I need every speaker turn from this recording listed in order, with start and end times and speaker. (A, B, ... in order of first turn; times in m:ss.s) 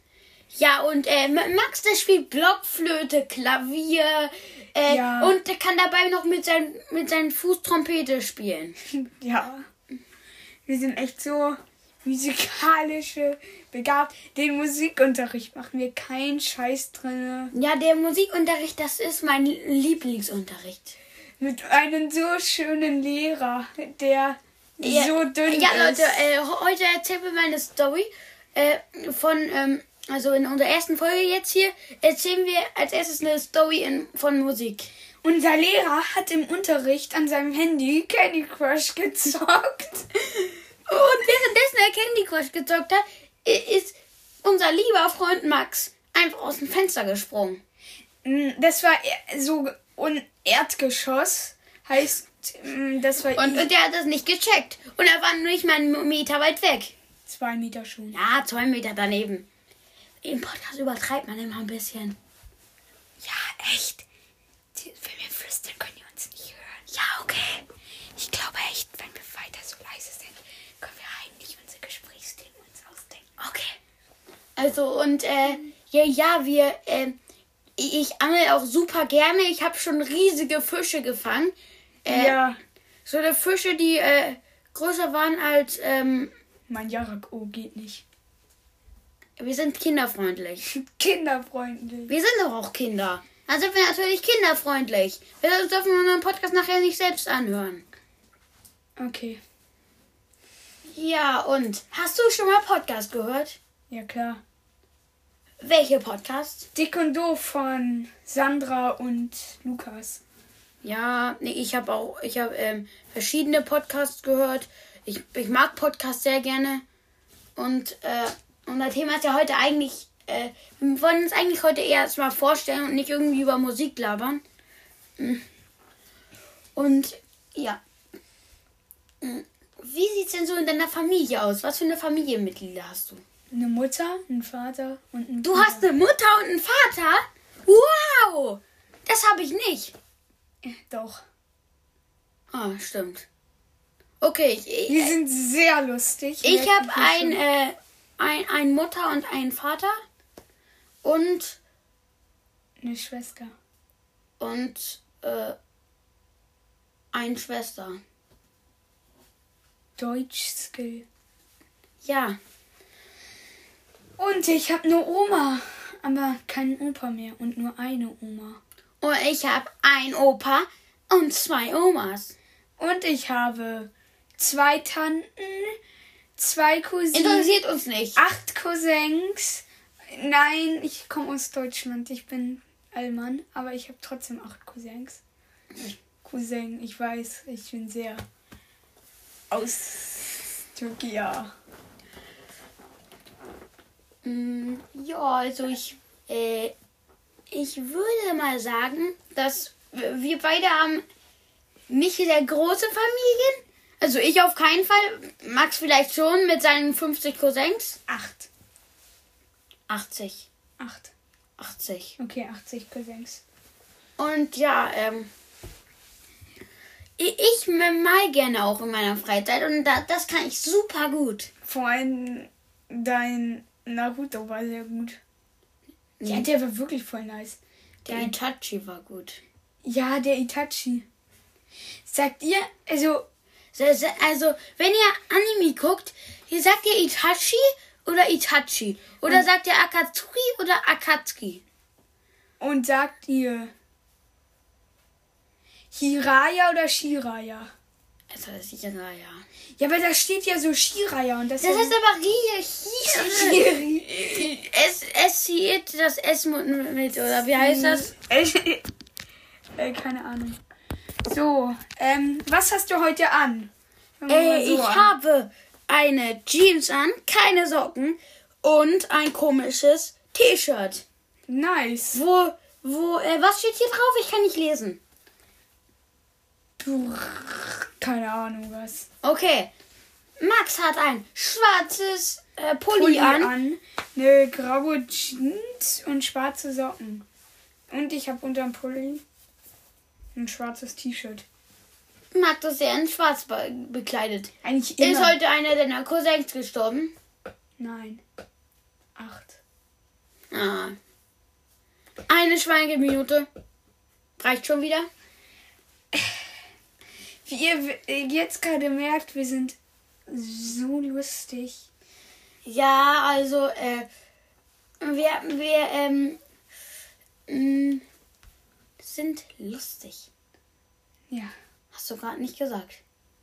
0:00.5-0:08.8 A
0:04.9-0:05.4 B
0:08.9-0:09.7 B
0:10.7-0:17.5 B
0:17.5-0:21.0 A
0:21.4-0:26.3 B
0:24.8-0:34.9 A
0:35.2-0:40.1 B
0:40.9-0:47.6 A
0:48.2-0:53.7 B
0:53.4-0:56.9 A
0:57.3-0:58.2 B
0:58.1-0:59.5 A
1:00.2-1:02.2 A
1:03.2-1:04.0 B
1:04.8-1:06.9 B
1:06.9-1:07.6 A
1:08.2-1:13.3 B
1:13.4-1:13.8 A
1:14.6-1:17.2 A
1:17.8-1:22.4 A
1:22.1-1:22.6 B
1:23.1-1:26.3 A
1:26.7-1:28.0 B
1:29.4-1:30.7 A
1:30.6-1:32.1 B
1:32.1-1:37.8 A
1:39.0-1:39.4 B
1:40.9-1:43.6 A
1:43.9-1:44.4 B
1:45.6-1:46.7 A
1:46.8-1:50.2 B
1:50.8-1:56.8 A
1:57.6-2:04.4 A
2:05.2-2:05.4 A
2:06.8-2:07.8 A
2:09.2-2:13.2 A
2:13.5-2:15.9 B
2:15.4-2:20.0 A
2:20.6-2:21.2 B
2:22.5-2:23.3 A
2:24.2-2:25.1 A
2:24.9-2:27.4 B
2:26.4-2:30.0 A
2:31.0-2:31.6 A
2:32.8-2:33.5 B
2:34.4-2:35.6 A
2:37.1-2:38.0 A
2:40.0-2:41.1 B
2:42.0-2:42.4 A
2:44.2-2:48.6 B
2:49.0-2:52.4 A
2:52.8-2:55.8 B
2:56.4-2:57.5 B
2:57.1-2:58.2 A
2:58.2-3:05.2 B
3:06.2-3:08.2 B
3:09.5-3:11.5 B
3:14.2-3:16.7 A
3:17.5-3:21.0 A
3:21.9-3:28.0 A
3:28.1-3:28.5 B
3:29.9-3:30.5 A
3:30.8-3:31.1 B
3:31.6-3:32.2 A
3:32.2-3:33.4 B
3:34.2-3:35.3 A
3:37.2-3:41.5 A
3:41.7-3:45.2 B
3:46.2-3:46.5 A
3:46.2-3:48.3 B
3:48.0-3:49.4 A
3:49.8-3:51.1 B
3:52.0-3:53.3 B
3:53.7-4:01.6 A
4:02.6-4:03.7 B
4:05.9-4:07.7 B
4:08.3-4:09.4 A
4:09.8-4:12.0 B
4:11.6-4:18.1 A
4:13.1-4:14.5 B
4:17.5-4:18.8 B
4:19.8-4:20.6 B
4:21.3-4:25.1 B
4:24.3-4:31.0 A
4:31.5-4:32.2 B
4:32.1-4:35.0 A
4:36.8-4:39.1 B
4:39.2-4:39.7 A
4:40.4-4:43.5 A
4:42.9-4:47.2 B
4:47.9-4:49.2 B
4:50.4-4:51.4 B
4:52.3-4:57.1 A
4:54.6-4:55.4 B
4:57.8-4:58.2 B
4:59.2-4:59.6 B
5:00.5-5:01.0 A
5:02.3-5:03.5 A
5:04.4-5:05.1 A
5:07.4-5:09.8 B
5:10.3-5:11.9 B
5:12.6-5:14.1 A
5:15.0-5:16.4 A
5:17.5-5:18.0 A
5:19.0-5:20.3 A
5:21.9-5:23.0 A